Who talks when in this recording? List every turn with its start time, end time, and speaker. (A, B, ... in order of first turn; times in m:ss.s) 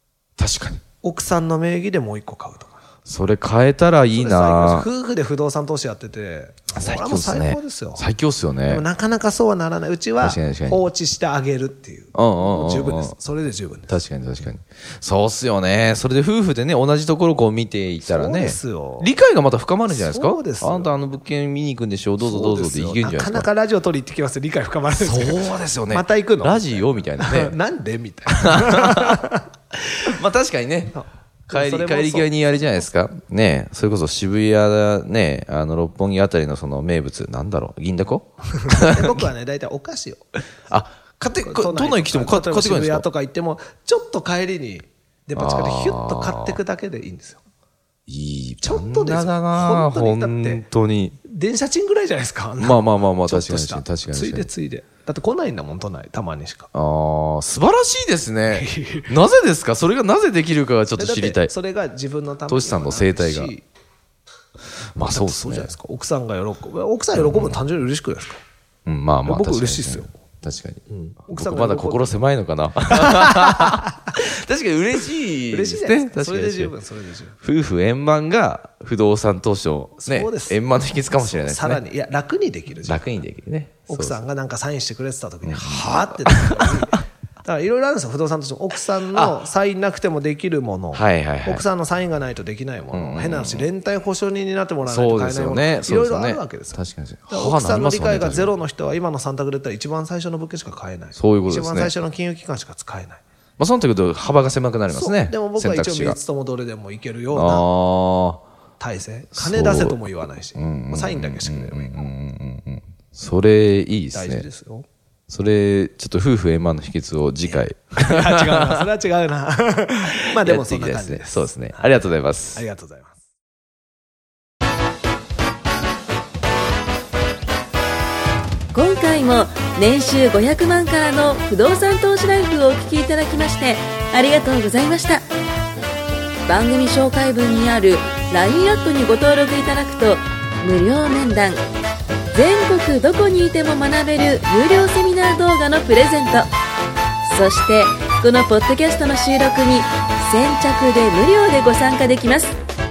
0:00.4-0:00.8 A
0:01.0-0:02.8 B
0:03.0-0:04.9 A
0:04.1-0:08.0 B
0:06.7-0:08.8 A
0:08.6-0:14.0 B
0:10.2-0:10.8 A
0:12.1-0:13.1 A
0:13.9-0:23.5 A
0:18.0-0:19.1 B
0:19.9-0:21.0 B
0:22.2-0:29.4 B
0:24.9-0:27.6 A
0:28.3-0:29.2 A
0:30.0-0:31.0 A
0:30.9-0:32.3 B
0:31.5-0:39.3 A
0:38.6-0:40.3 B
0:40.7-0:43.1 A
0:41.4-0:47.4 B
0:45.3-0:46.6 A
0:48.1-0:51.2 A
0:48.6-0:50.6 B
0:51.2-0:56.7 B
0:52.6-0:54.5 A
0:56.7-1:01.5 A
0:58.5-0:59.1 B
1:01.0-1:03.6 B
1:02.5-1:03.5 A
1:05.0-1:05.7 A
1:05.0-1:08.4 B
1:07.2-1:07.6 A
1:08.8-1:16.7 A
1:09.2-1:10.1 B
1:10.9-1:12.2 B
1:12.9-1:14.1 B
1:15.5-1:17.4 B
1:17.4-1:21.8 A
1:20.0-1:20.6 B
1:21.1-1:23.1 B
1:22.8-1:24.2 A
1:23.9-1:36.8 B
1:25.4-1:26.8 A
1:29.1-1:29.4 A
1:30.9-1:31.6 A
1:32.9-1:33.7 A
1:34.8-1:38.5 A
1:37.3-1:43.2 B
1:41.2-1:41.9 A
1:43.6-1:46.2 A
1:44.9-1:47.7 B
1:47.3-1:48.4 A
1:48.8-1:52.1 B
1:49.3-1:50.0 A
1:50.6-1:54.4 A
1:54.1-1:54.9 B
1:55.3-1:58.8 A
1:57.4-2:01.6 B
2:00.3-2:02.6 A
2:02.5-2:03.2 B
2:08.7-2:15.2 C
2:16.4-2:21.6 C
2:22.3-2:26.5 C
2:27.2-2:32.5 C